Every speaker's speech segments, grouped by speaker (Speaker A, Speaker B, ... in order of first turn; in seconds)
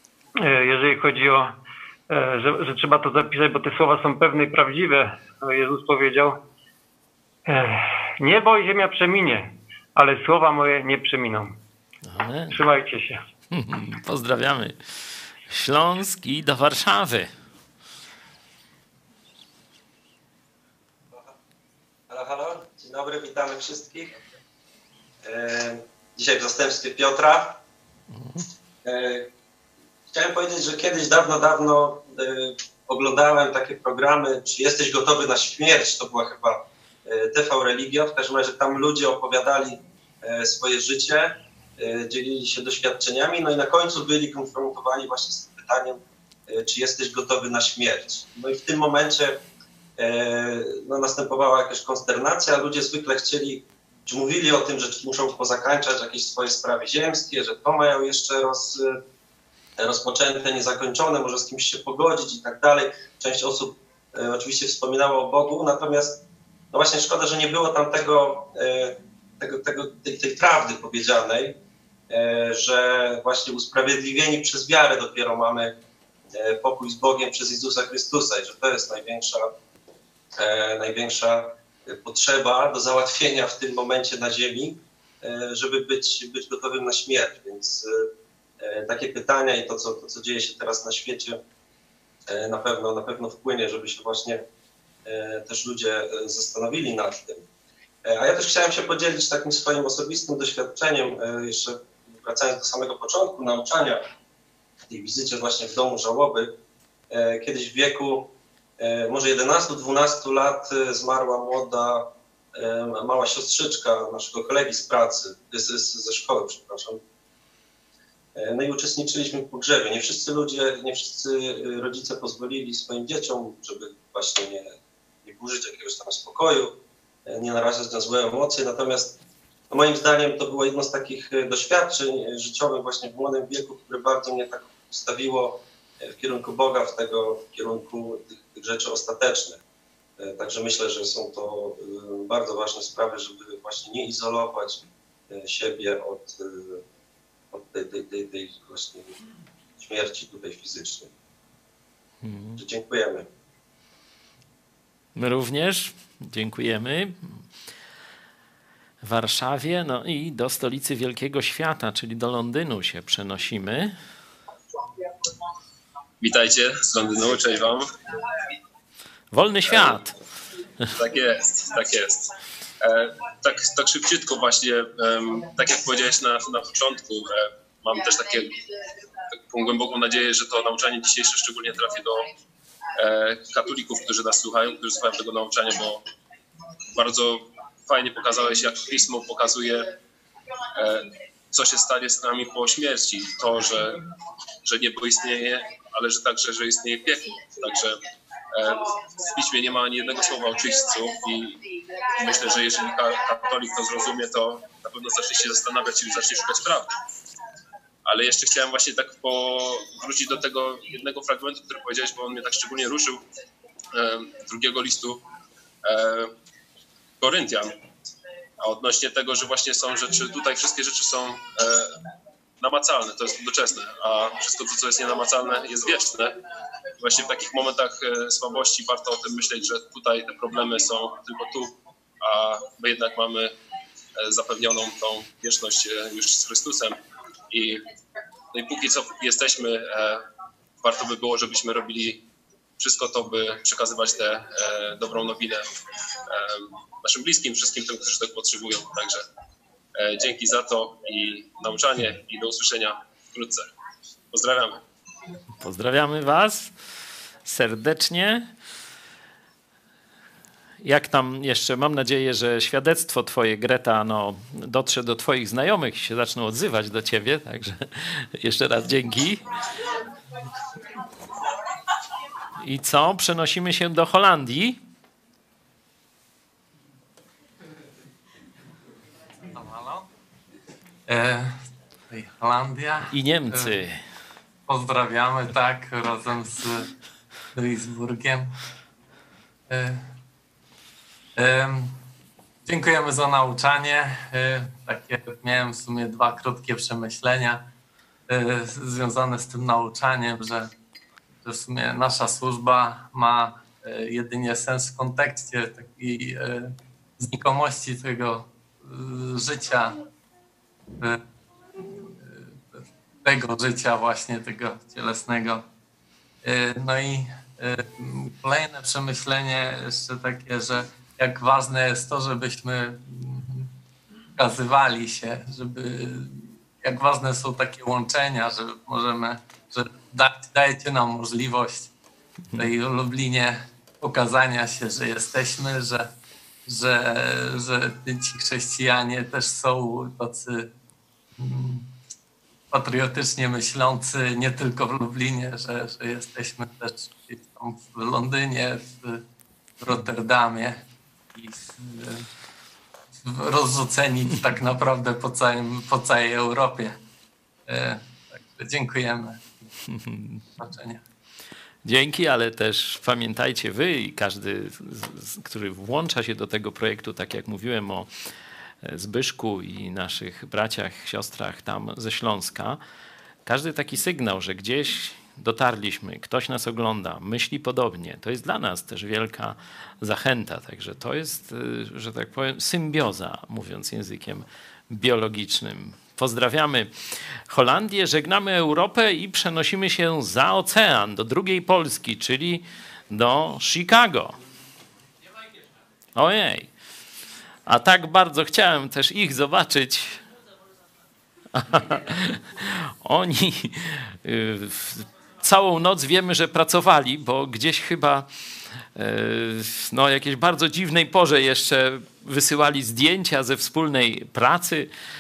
Speaker A: 0.4-1.5, 2.1-6.4, 7.5-11.5, 12.5-13.2
Speaker B: 12.0-12.5, 13.5-14.8, 15.5-17.3, 28.1-28.4, 152.2-152.6, 155.2-157.4, 159.0-164.0, 169.3-170.2, 255.6-256.7, 257.4-258.5, 260.8-269.4, 272.6-274.8, 283.1-284.0, 359.9-360.4, 361.8-368.1, 368.8-372.8, 373.4-386.9, 387.5-394.4, 396.1-396.7, 397.6-400.2, 401.5-408.3, 408.9-414.9
Speaker C: 22.1-24.1, 25.2-27.6, 28.8-29.3, 30.1-49.4, 50.0-59.0, 59.8-66.2, 66.7-71.6, 72.1-75.7, 76.3-79.5, 80.4-88.1, 88.6-91.4, 92.3-94.4, 95.0-97.5, 98.0-104.1, 104.9-106.5, 107.1-117.0, 118.3-126.7, 127.3-129.2, 129.7-139.6, 140.2-146.8, 147.5-149.2, 149.8-151.1, 152.6-153.3
Speaker D: 166.2-167.9, 169.7-170.0, 170.9-178.6, 179.4-182.3, 183.0-186.0, 186.9-189.9, 190.8-194.0, 194.6-198.0, 198.5-206.9, 208.1-213.2, 213.9-215.2, 215.8-216.3, 217.2-217.7, 218.6-221.9, 222.6-226.3, 227.0-233.5, 234.2-237.0, 237.5-237.8, 238.5-240.2, 240.8-242.2, 242.8-245.6, 246.3-249.2, 250.0-253.7, 254.3-254.8
Speaker E: 279.5-280.1, 281.1-283.8, 284.7-286.9, 287.5-288.5, 289.7-290.1, 291.4-292.0, 292.6-297.6, 298.3-300.7, 301.4-310.0, 311.8-315.6, 316.4-323.7, 324.4-331.9, 332.5-336.1, 336.6-340.7, 341.4-341.9, 342.7-349.2, 349.8-352.2, 353.2-357.0, 357.7-359.4, 360.6-361.0